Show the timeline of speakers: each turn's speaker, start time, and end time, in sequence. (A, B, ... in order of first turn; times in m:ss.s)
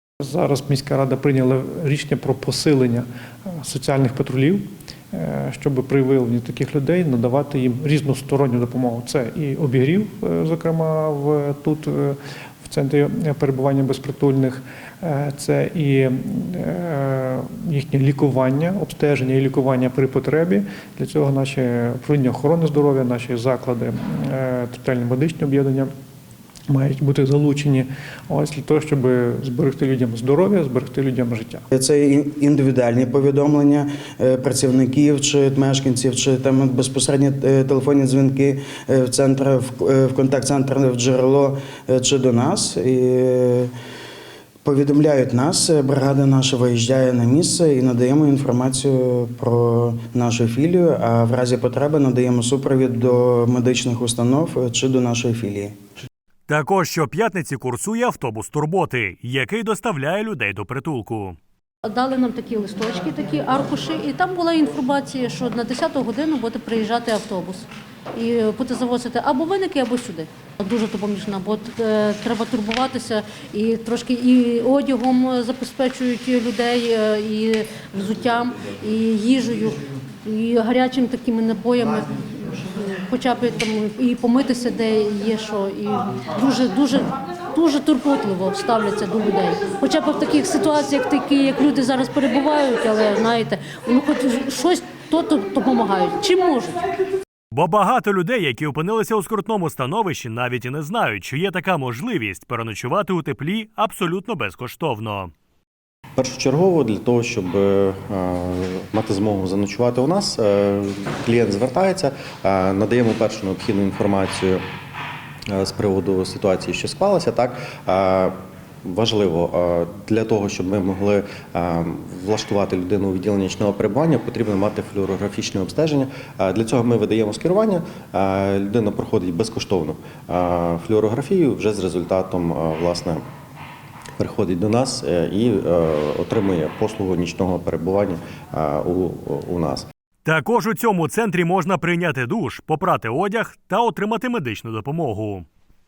0:00.2-0:25.9 A
0:26.7-0:31.6 A
0:31.7-0:43.7 B
0:44.6-0:55.8 B
0:56.5-1:01.4 C
1:01.8-1:36.8 D
1:37.5-1:45.3 C
1:46.2-1:54.6 E
1:55.5-1:58.3 E
1:58.8-2:13.2 E
2:14.2-2:19.9 E
2:20.2-2:25.5 C